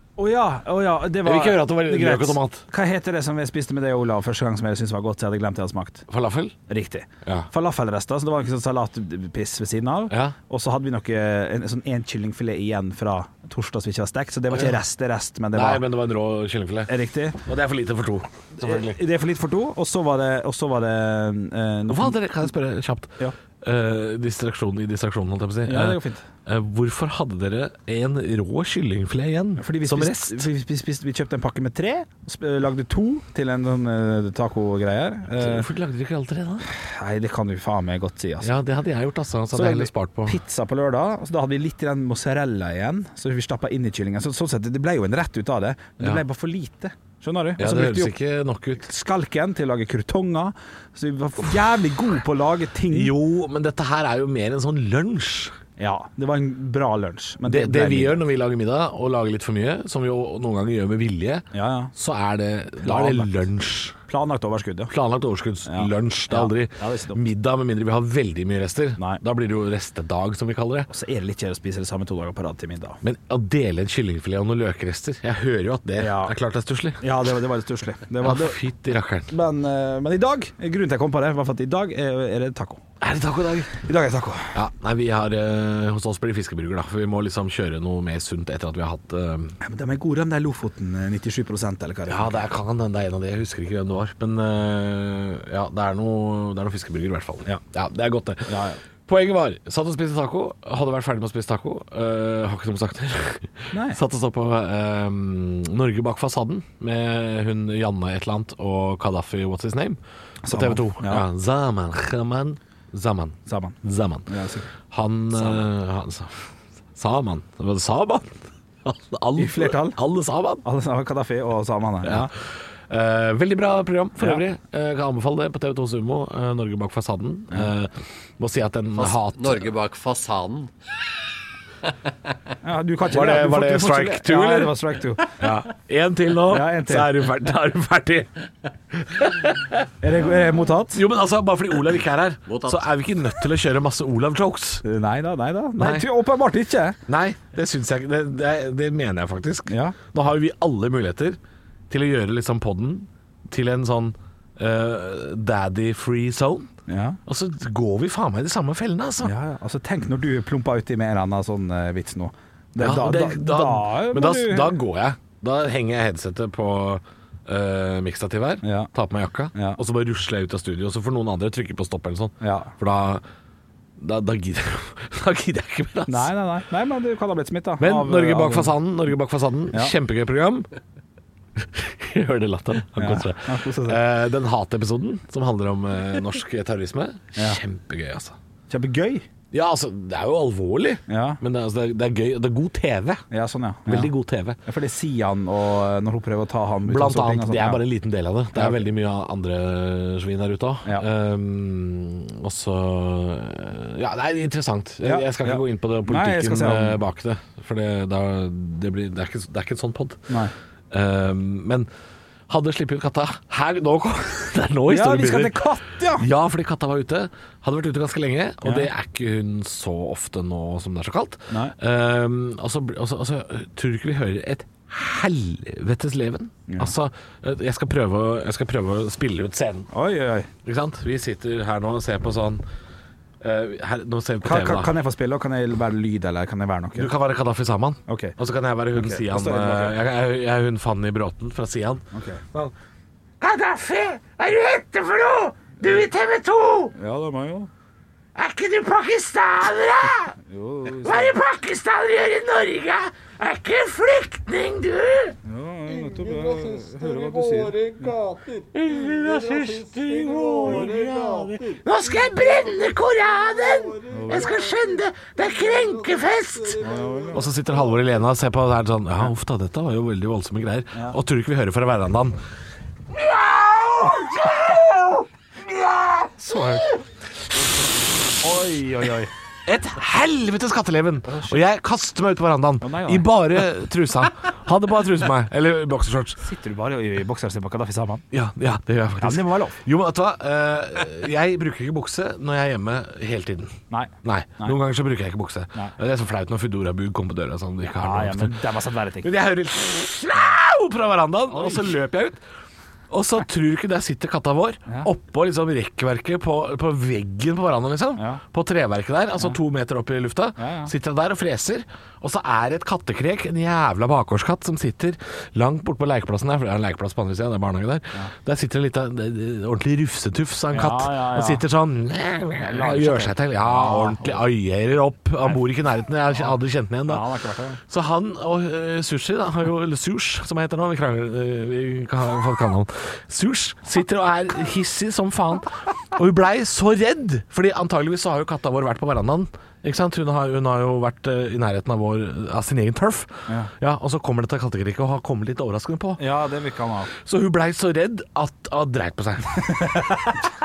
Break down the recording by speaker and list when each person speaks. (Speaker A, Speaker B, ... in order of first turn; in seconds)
Speaker A: 0.2-6.0, 6.7-15.8, 16.9-17.4, 18.6-22.2, 25.6-26.2, 29.6-35.6, 36.6-38.5, 39.5-48.1, 48.8-53.1, 55.8-58.2, 61.5-61.9, 62.8-63.4, 64.1-64.9, 65.6-67.2, 70.9-73.0, 76.0-76.3, 77.0-78.6, 79.3-82.8, 83.8-84.6, 89.6-92.4, 98.5-98.8, 103.7-104.0, 110.4-111.2, 113.5-114.7, 115.3-115.7, 119.4-120.0, 120.6-122.3, 132.6-135.3, 136.5-137.1, 140.0-141.0, 144.8-147.0, 149.7-149.9, 156.9-157.2, 159.2-164.8, 168.6-168.9, 169.5-169.8, 172.4-172.7, 176.1-178.7, 182.9-184.0, 188.7-189.3, 191.1-191.4, 193.3-194.1, 194.6-197.8, 198.5-198.8, 205.0-207.0, 214.9-216.3, 218.6-218.9, 221.5-221.7, 226.7-226.9, 229.9-230.5, 234.4-237.1, 238.1-238.3, 238.9-240.0, 242.1-242.4, 246.9-247.7, 250.5-251.3, 255.4-258.2, 260.6-260.9, 264.1-264.5, 266.8-267.5, 276.4-276.9, 278.4-279.3, 281.3-281.6, 282.8-283.3, 286.4-288.2, 289.2-289.8, 293.9-294.8, 297.8-299.3, 301.5-301.8, 308.2-308.4, 310.6-310.9, 320.7-321.6, 322.6-324.4, 327.1-327.8, 346.2-347.1, 349.7-350.4
Speaker B: 1.2-2.6, 6.1-6.5, 7.2-7.5, 10.1-10.3, 14.5-14.8, 15.5-19.0, 21.9-30.5, 35.3-36.7, 38.4-40.4, 47.6-48.9, 52.9-55.6, 57.4-64.0, 64.9-70.9, 73.0-77.0, 78.2-79.3, 83.0-83.8, 84.5-89.5, 92.1-98.5, 99.0-114.3, 114.9-120.6, 122.0-129.7, 133.1-134.8, 135.4-138.3, 138.9-139.9, 140.9-144.8, 145.8-146.1, 147.1-151.4, 151.9-156.7, 157.2-159.3, 162.8-173.2, 174.0-176.3, 177.8-180.7, 181.6-188.4, 189.5-193.2, 193.8-194.6, 196.8-210.4, 210.9-211.9, 212.5-229.9, 230.6-232.6, 233.4-234.9, 236.9-242.7, 243.4-246.9, 248.3-255.4, 258.5-272.4, 273.1-277.0, 279.6-286.4, 288.3-293.7, 294.2-298.6, 299.2-302.4, 303.1-327.2, 327.8-346.2, 347.1-349.8
Speaker C: 129.0-130.7, 142.5-142.9